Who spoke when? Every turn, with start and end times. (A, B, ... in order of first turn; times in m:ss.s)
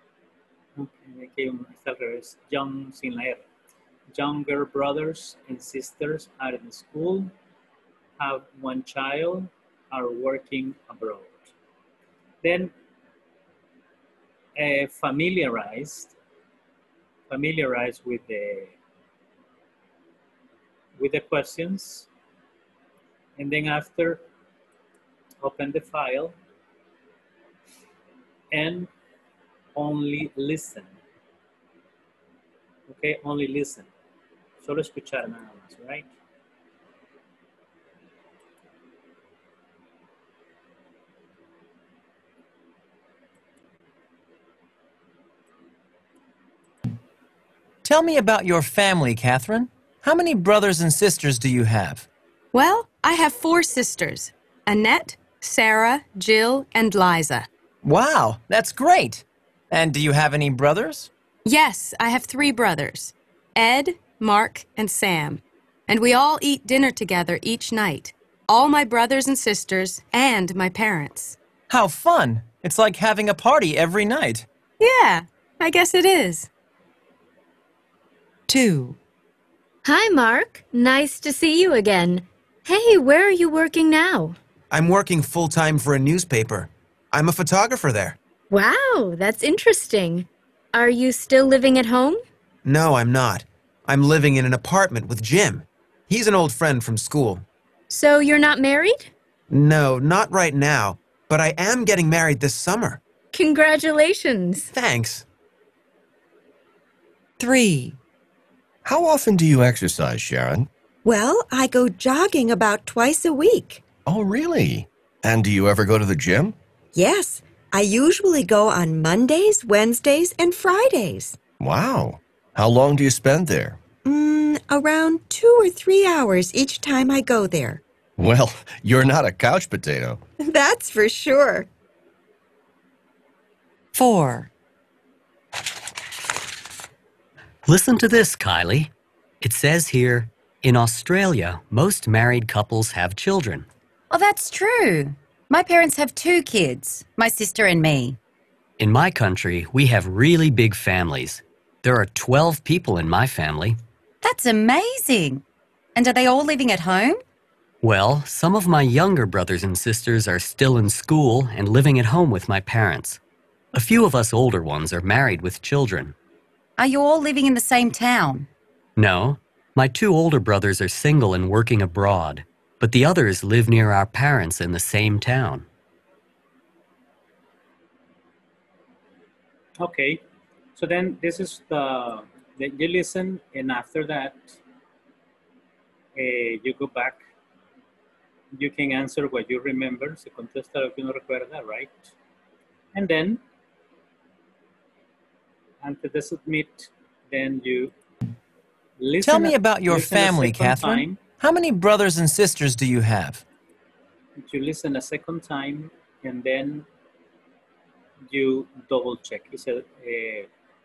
0:00.8-0:03.4 A
0:04.1-0:07.3 A
0:08.2-0:11.5 A
0:12.4-0:12.7 A
0:14.6-0:16.1 A
0:17.3-0:18.7 A
0:21.0-0:22.1 A
0:23.4-0:24.2 A
0:25.4-0:26.3 A
0:28.5-0:28.9 A
0:29.8-0:30.9 A
0:32.9-0:33.9 A
0:34.6-0:36.1 A
0:47.8-0:52.1 B
0:52.5-0:57.5 C
0:57.8-1:01.1 B
1:01.5-1:11.4 C
1:11.7-1:14.5 B
1:14.8-1:16.5 C
1:18.5-1:19.0 C
1:19.8-1:24.4 D
1:24.7-1:28.2 E
1:28.5-1:32.2 D
1:32.6-1:37.4 E
1:37.9-1:39.1 D
1:39.5-1:43.0 E
1:43.3-1:44.7 D
1:44.7-1:45.2 E
1:47.4-1:48.0 F
1:48.8-1:50.7 G
1:51.0-1:53.9 H
1:54.1-1:56.6 G
1:56.9-2:01.4 H
2:01.6-2:03.8 G
2:04.0-2:07.8 H
2:08.2-2:10.2 G
2:10.4-2:11.7 H
2:14.0-2:14.5 F
2:17.6-2:23.7 I
2:24.1-2:28.2 F
2:28.8-2:33.8 I
2:34.2-2:35.4 F
2:36.0-2:37.2 F
2:37.8-2:43.2 I
2:43.7-2:46.1 I
2:46.8-2:48.5 F
2:49.0-2:55.6 I
2:59.8-3:00.2 A
3:00.8-3:04.6 A
3:06.2-3:07.2 A
3:08.5-3:12.1 A
3:12.9-3:13.4 A
3:15.8-3:17.9 A
3:19.0-3:21.2 A
3:19.2-3:23.4 B
3:24.4-3:26.9 A
3:28.3-3:30.5 A